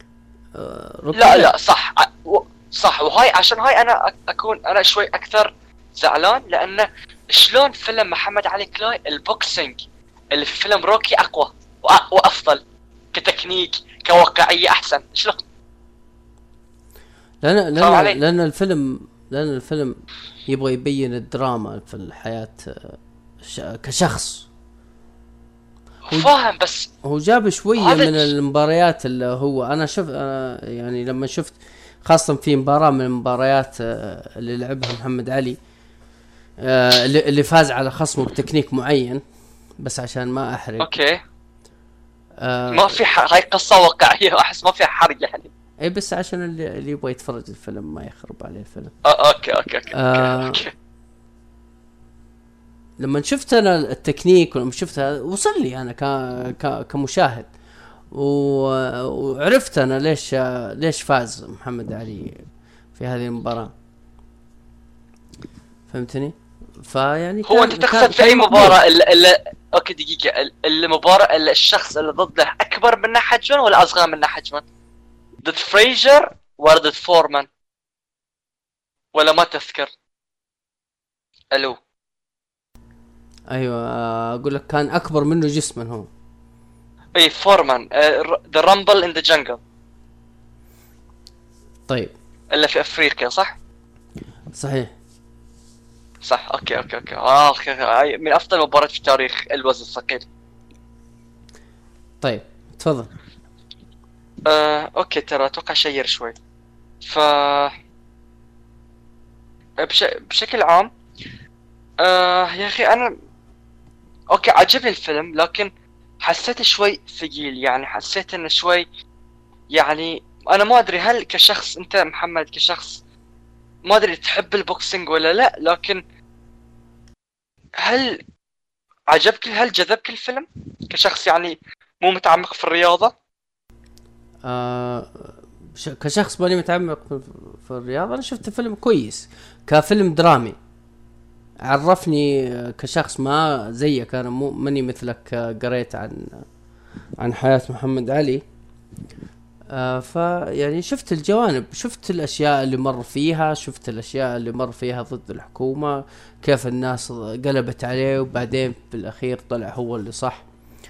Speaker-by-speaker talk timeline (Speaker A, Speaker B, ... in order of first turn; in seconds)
Speaker A: 0.5-1.6, 17.4-24.5, 27.0-35.6, 36.6-39.2, 39.8-40.9, 42.4-43.0, 45.8-48.9, 49.9-50.6, 53.0-57.5, 58.1-63.7, 65.9-68.8, 83.5-86.1, 91.9-92.1, 94.5-94.9, 102.2-103.1, 134.4-140.6, 141.7-146.5, 147.2-148.4, 149.7-160.4
Speaker B: 1.1-12.6, 13.1-15.4, 17.8-18.2, 26.1-26.9, 27.8-28.3, 40.8-41.2, 42.7-45.5, 49.0-50.7, 67.5-74.7, 75.4-77.5, 79.1-79.9, 81.5-81.8, 87.2-89.6, 92.5-93.6, 96.2-100.2, 104.5-106.3, 107.0-107.7, 109.8-110.9, 112.0-113.1, 114.3-115.7, 116.2-118.8, 119.7-123.0, 123.9-126.0, 127.8-128.2, 129.1-133.1